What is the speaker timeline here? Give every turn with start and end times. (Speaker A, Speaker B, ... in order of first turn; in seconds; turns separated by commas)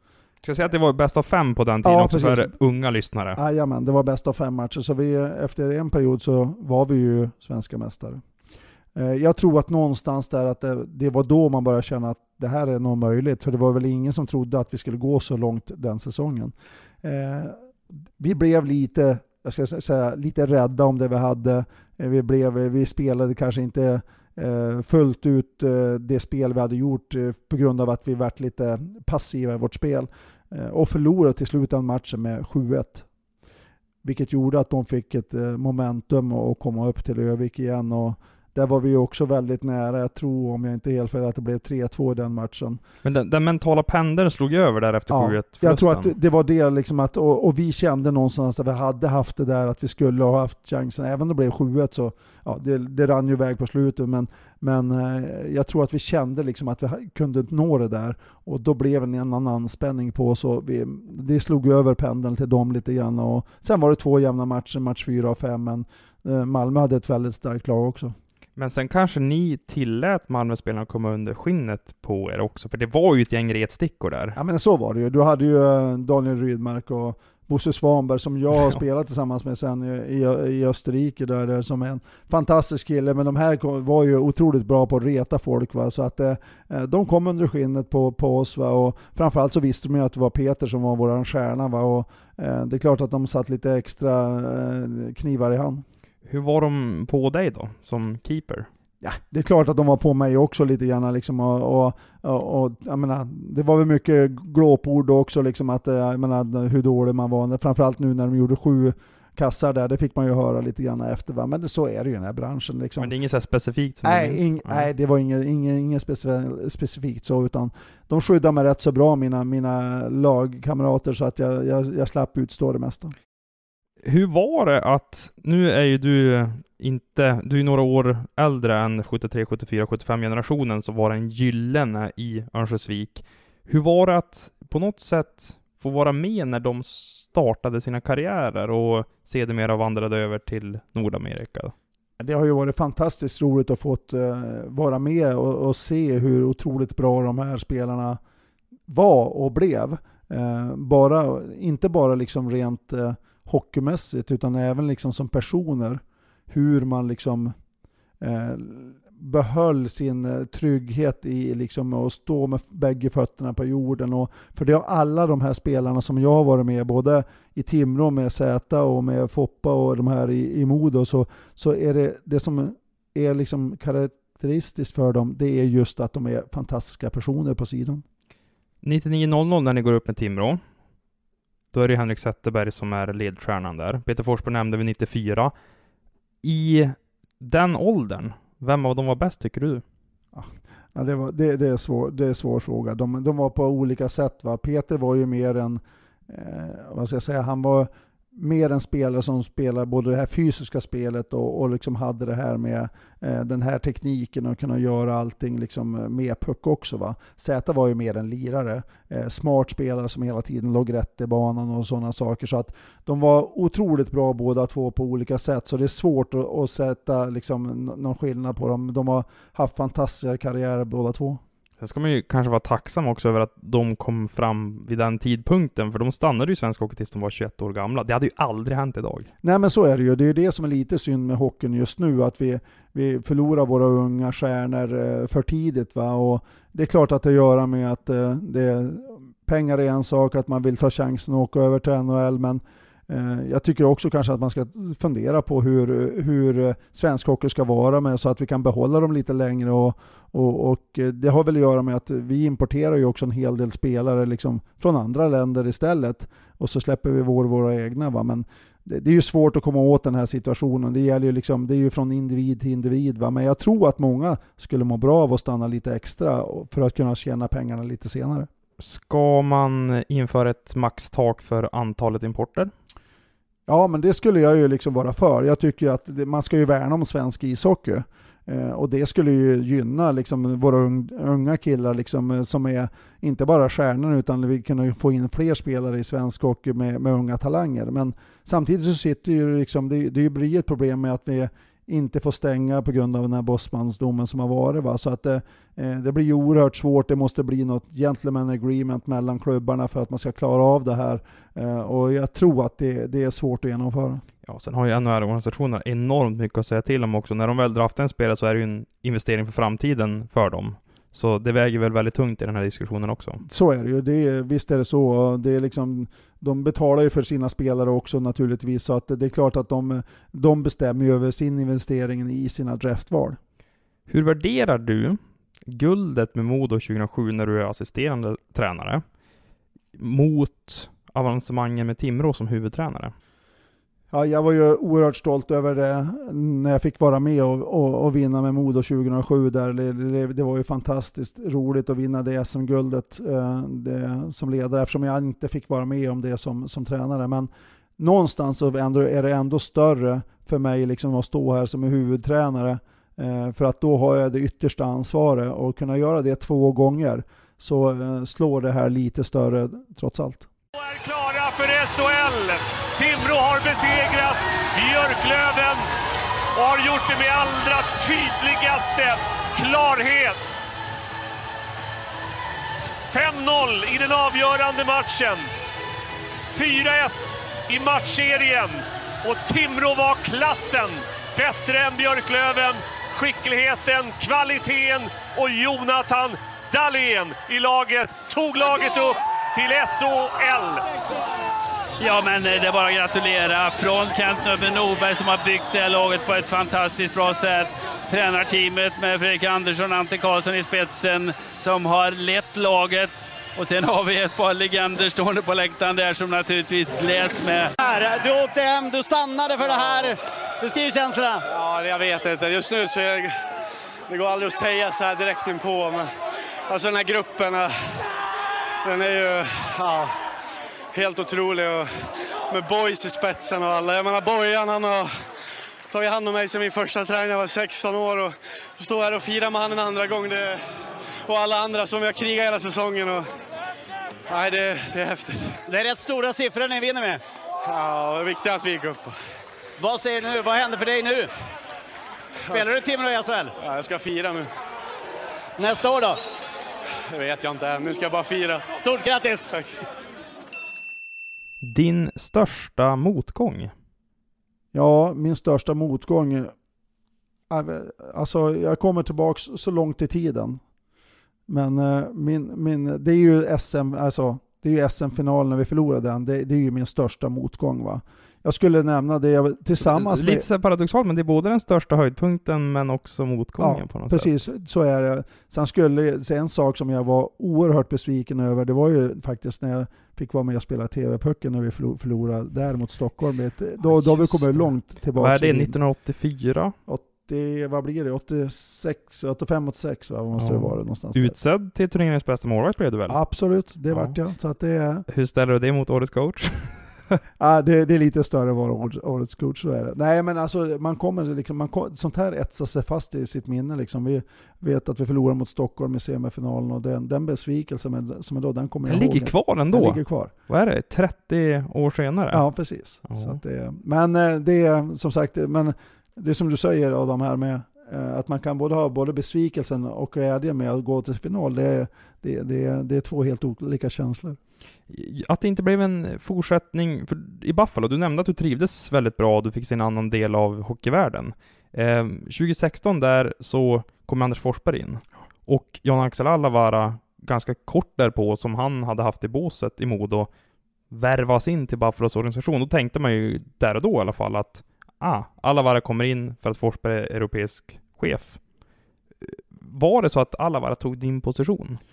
Speaker A: 0.4-3.4, Speaker B: 1.8-2.5, Speaker B: 3.4-8.2, Speaker B: 8.9-17.6, Speaker B: 18.2-33.0, Speaker B: 34.0-42.8, Speaker A: 43.0-46.1, Speaker B: 45.1-68.2, Speaker A: 68.6-74.4, Speaker B: 74.4-95.8, Speaker A: 96.3-98.7, Speaker B: 99.0-113.1, Speaker A: 113.0-114.9, Speaker B: 114.0-123.1, Speaker A: 124.0-141.7, Speaker B: 142.2-148.2, Speaker B: 148.9-157.6, Speaker B: 158.2-178.0, Speaker A: 178.8-180.6, Speaker A: 181.7-185.5, Speaker A: 186.4-189.8, Speaker B: 190.3-221.4, Speaker A: 221.8-229.3, Speaker B: 229.4-268.5, Speaker A: 268.8-272.7, Speaker B: 273.7-304.2, Speaker A: 304.4-313.4, Speaker B: 313.4-323.4, Speaker A: 324.1-329.0, Speaker A: 330.0-333.1, Speaker B: 334.1-360.5, Speaker C: 360.8-365.9, Speaker C: 366.6-370.6, Speaker C: 373.1-375.5, Speaker C: 376.4-390.8, Speaker D: 392.0-407.7, Speaker E: 407.8-411.4, Speaker F: 409.7-410.1, Speaker F: 411.5-413.3, Speaker F: 414.1-416.1, Speaker F: 416.7-418.0, Speaker F: 418.8-420.1, Speaker F: 420.9-421.9, Speaker F: 422.5-425.1, Speaker F: 425.9-430.6, Speaker F: 431.3-433.3, Speaker F: 434.3-435.6, Speaker E: 435.7-437.2, Speaker F: 437.6-439.2, Speaker E: 439.8-441.3, Speaker F: 442.5-442.8, Speaker E: 442.5-443.5, Speaker F: 443.6-444.5, Speaker E: 445.6-446.2, Speaker F: 447.1-448.8, Speaker E: 448.8-449.5, Speaker A: 451.6-453.7, Speaker B: 454.7-456.5, Speaker B: 457.5-460.6, Speaker B: 461.5-470.5, Speaker A: 469.8-474.4, Speaker B: 473.6-485.8, Speaker A: 483.8-486.8, Speaker B: 486.9-491.4, Speaker A: 490.4-493.2, Speaker B: 493.1-495.1, Speaker A: 495.1-496.9, Speaker B: 497.4-510.3, Speaker A: 508.9-512.4, Speaker B: 512.3-524.4, Speaker A: 513.0-513.4, Speaker A: 524.9-540.3, Speaker A: 540.9-548.4, Speaker A: 549.2-551.8